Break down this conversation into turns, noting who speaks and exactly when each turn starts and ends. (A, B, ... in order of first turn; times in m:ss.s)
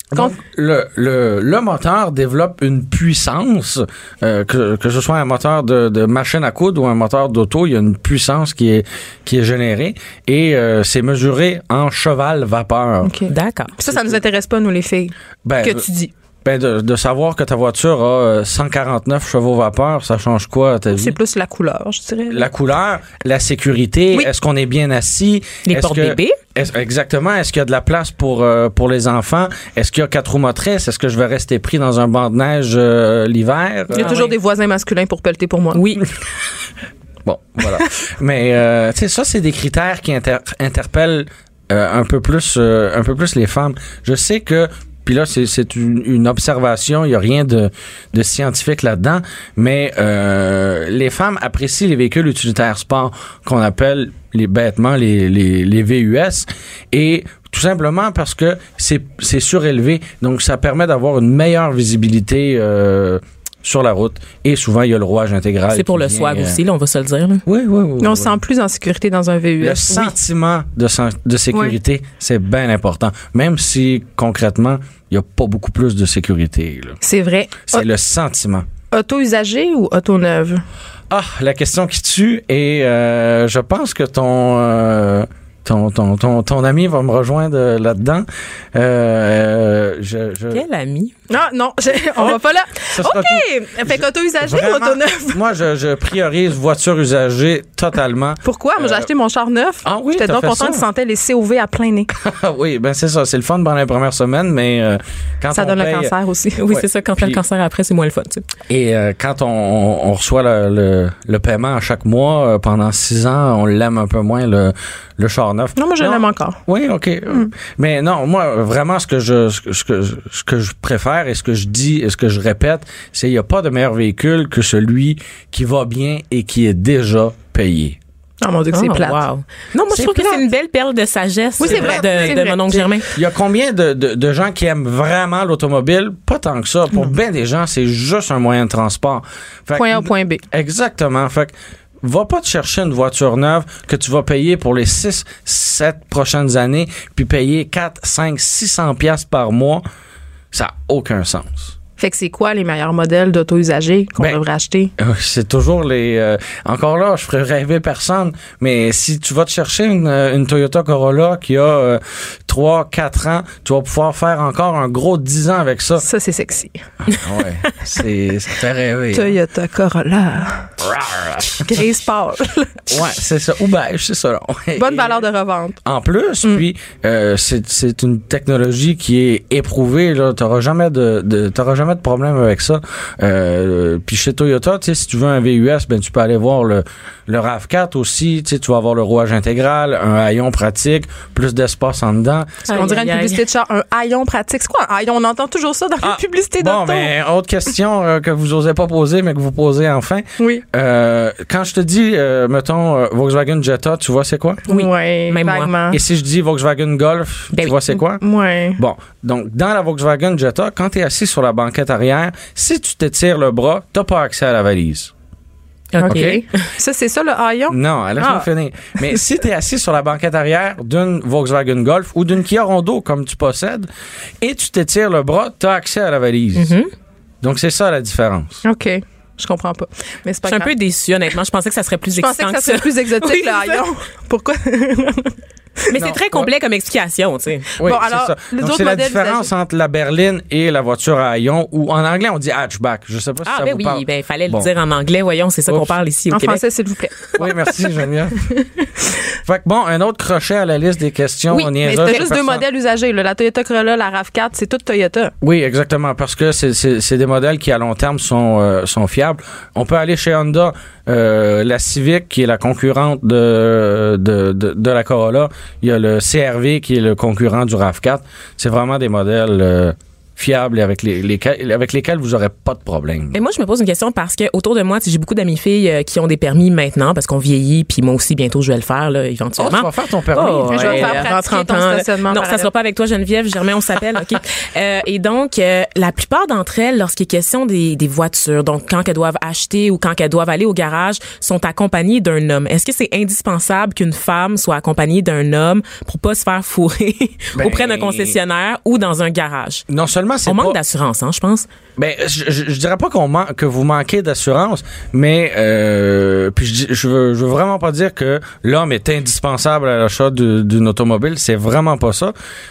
0:00.1-0:13.1 A
0:13.0-0:16.1 B
0:13.3-0:13.7 C
0:13.9-0:14.2 A
0:15.4-0:15.8 A
0:16.4-0:21.2 A
0:20.9-0:22.5 B
0:22.3-0:34.2 A
0:25.7-0:26.4 C
0:33.9-0:36.0 B
0:33.9-0:34.4 C
0:35.7-0:36.0 C
0:37.2-1:06.6 A
1:05.7-1:07.4 C
1:07.4-1:08.4 A
1:08.0-1:10.1 B
1:09.6-1:17.0 A
1:17.0-1:17.9 B
1:17.7-1:18.7 A
1:18.9-1:20.6 B
1:21.1-1:30.6 A
1:30.5-1:31.1 C
1:31.3-1:35.4 B
1:32.2-1:39.1 A
1:38.4-1:42.1 B
1:39.8-1:40.8 A
1:42.1-1:46.2 A
1:45.5-1:46.6 B
1:46.6-1:48.4 C
1:46.7-1:47.4 A
1:48.7-2:08.0 A
1:55.8-1:56.6 B
2:08.4-2:09.2 B
2:08.7-2:13.1 C
2:09.9-2:10.4 A
2:11.6-2:12.6 B
2:11.6-2:29.8 A
2:19.7-2:20.4 B
2:30.5-2:31.8 A
2:32.0-2:34.9 B
2:35.0-2:46.1 A
2:46.0-2:46.8 B
2:47.2-2:49.4 A
2:49.1-2:50.8 B
2:50.8-2:51.8 A
2:51.6-2:53.0 B
2:52.9-2:55.2 A
2:54.8-2:55.8 B
2:55.8-3:12.8 A
3:12.7-3:13.4 C
3:12.7-3:17.1 B
3:16.0-3:24.6 A
3:20.4-3:20.6 B
3:24.7-3:26.0 B
3:24.7-3:25.7 C
3:25.9-3:28.2 A
3:28.2-3:28.8 B
3:28.8-3:35.1 A
3:35.9-3:36.6 C
3:36.0-3:36.4 A
3:36.0-3:38.5 B
3:37.7-3:46.8 A
3:46.6-3:46.9 C
3:47.4-3:48.6 A
3:48.6-3:50.7 B
3:50.5-3:53.8 C
3:52.1-3:55.9 B
3:55.9-3:57.7 C
3:56.0-3:56.5 A
3:57.8-4:04.7 A
3:57.8-3:59.5 B
4:03.4-4:06.6 C
4:05.7-4:06.0 A
4:06.3-4:07.8 B
4:07.4-4:08.4 A
4:08.6-4:08.8 B
4:09.4-4:12.6 A
4:11.5-4:15.3 B
4:15.4-4:33.4 A
4:33.3-4:59.8 C
4:39.6-4:41.3 A
4:40.7-4:42.7 B
4:57.6-4:58.4 A
4:59.9-5:00.8 A
5:00.5-5:01.7 C
5:02.0-5:12.3 A